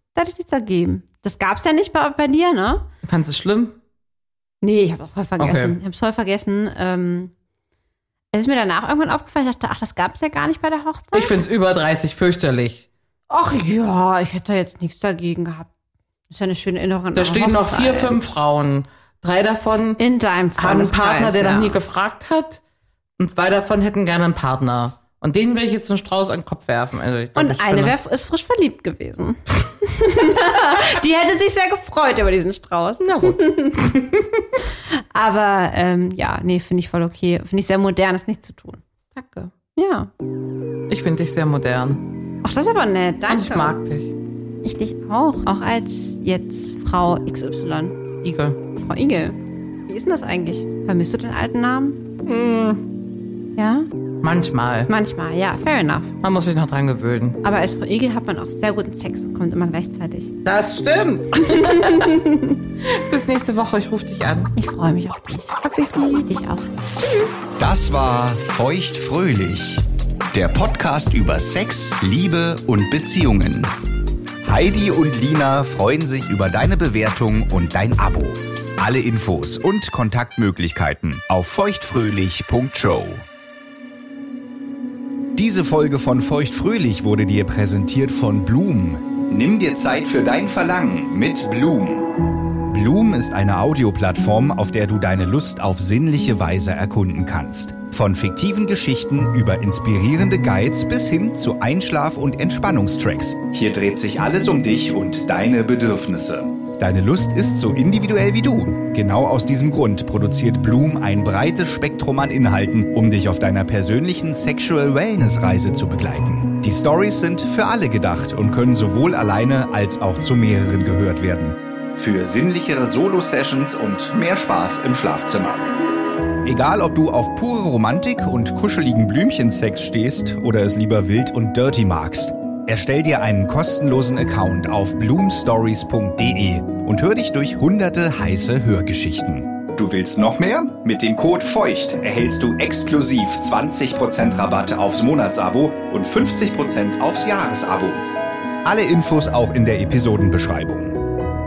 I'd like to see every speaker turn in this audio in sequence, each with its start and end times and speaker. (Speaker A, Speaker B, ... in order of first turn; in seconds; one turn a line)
Speaker A: 0.1-2.9
Speaker B: 3.0-3.8
Speaker A: 4.6-7.3
Speaker B: 5.4-5.8
Speaker A: 8.3-11.3
Speaker B: 11.1-12.9
Speaker A: 13.3-15.7
Speaker A: 16.3-18.2
Speaker B: 17.1-20.0
Speaker A: 20.0-21.8
Speaker B: 20.6-22.6
Speaker B: 23.2-28.0
Speaker A: 27.4-33.9
Speaker B: 33.0-34.5
Speaker A: 34.9-38.8
Speaker B: 39.1-39.5
Speaker A: 39.8-40.1
Speaker B: 40.9-42.1
Speaker A: 42.4-43.8
Speaker B: 43.3-44.1
Speaker A: 44.6-48.0
Speaker B: 48.2-48.6
Speaker A: 48.8-52.0
Speaker B: 52.2-52.8
Speaker A: 53.6-53.9
Speaker B: 54.2-54.9
Speaker A: 54.9-56.1
Speaker B: 56.2-57.4
Speaker A: 57.4-60.4
Speaker B: 60.4-62.3
Speaker A: 61.5-62.5
Speaker B: 62.8-64.5
Speaker A: 64.5-66.9
Speaker B: 65.6-66.0
Speaker B: 67.0-67.4
Speaker C: 67.6-73.7
Speaker C: 74.4-83.2
Speaker C: 85.4-92.1
Speaker C: 92.7-125.7
Speaker C: 126.4-148.1
Speaker C: 148.6-151.1